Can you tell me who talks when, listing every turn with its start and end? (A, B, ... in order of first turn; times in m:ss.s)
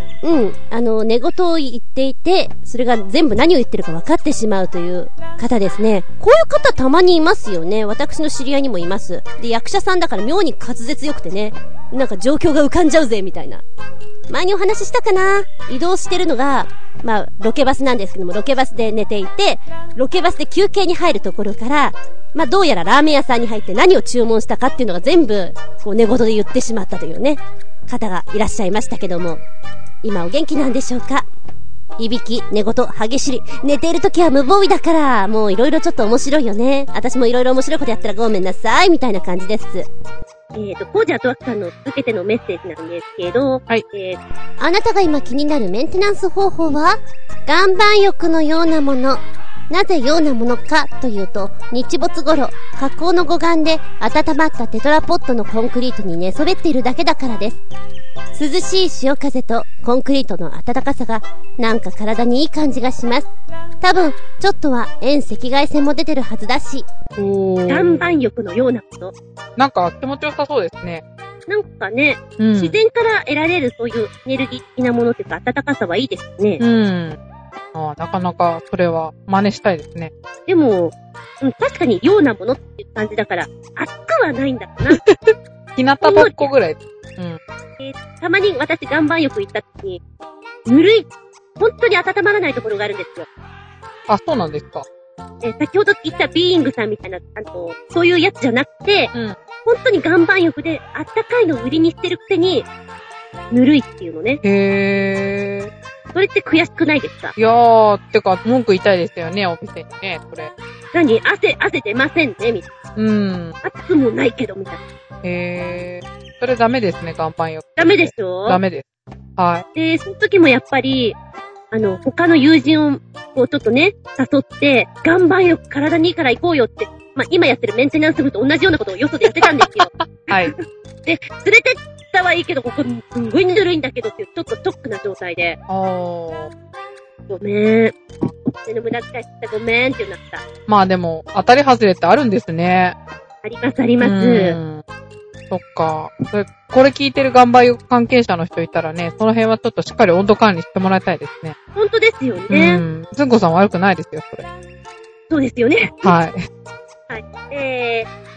0:00.2-0:13.6 A
0:14.3-0:29.4 A
0:30.0-0:31.3 A
0:32.0-0:39.9 A
0:40.6-0:44.2 B
0:44.6-0:57.6 A
0:58.4-1:03.3 A
1:03.8-1:06.9 A
1:07.2-1:08.2 C
1:07.7-1:09.1 B
1:09.6-1:11.0 C
1:11.5-1:16.6 B
1:12.4-1:12.8 C
1:16.6-1:17.2 C
1:17.7-1:20.1 C
1:20.5-1:25.0 B
1:24.9-1:27.4 C
1:26.0-1:26.5 B
1:27.8-1:30.0 B
1:30.7-1:33.3 B
1:34.1-1:34.8 C
1:35.4-1:39.1 B
1:39.6-1:42.7 B
1:43.5-1:44.4 B
1:44.4-1:45.7 C
1:46.1-1:47.4 B
1:47.4-1:50.5 C
1:50.9-1:52.7 B
1:53.0-1:53.6 C
1:53.6-1:54.8 B
1:55.2-1:58.8 C
1:57.8-1:58.6 B
1:59.4-1:59.6 C
1:59.8-2:01.2 B
2:01.7-2:15.6 B
2:09.4-2:10.5 C
2:15.7-2:16.5 C
2:17.3-2:20.4 B
2:20.7-2:23.0 C
2:23.4-2:24.6 B
2:24.0-2:24.8 C
2:25.5-2:31.6 C
2:31.8-2:32.8 B
2:32.5-2:34.5 C
2:35.3-2:36.2 B
2:36.0-2:36.4 C
2:37.1-2:38.1 B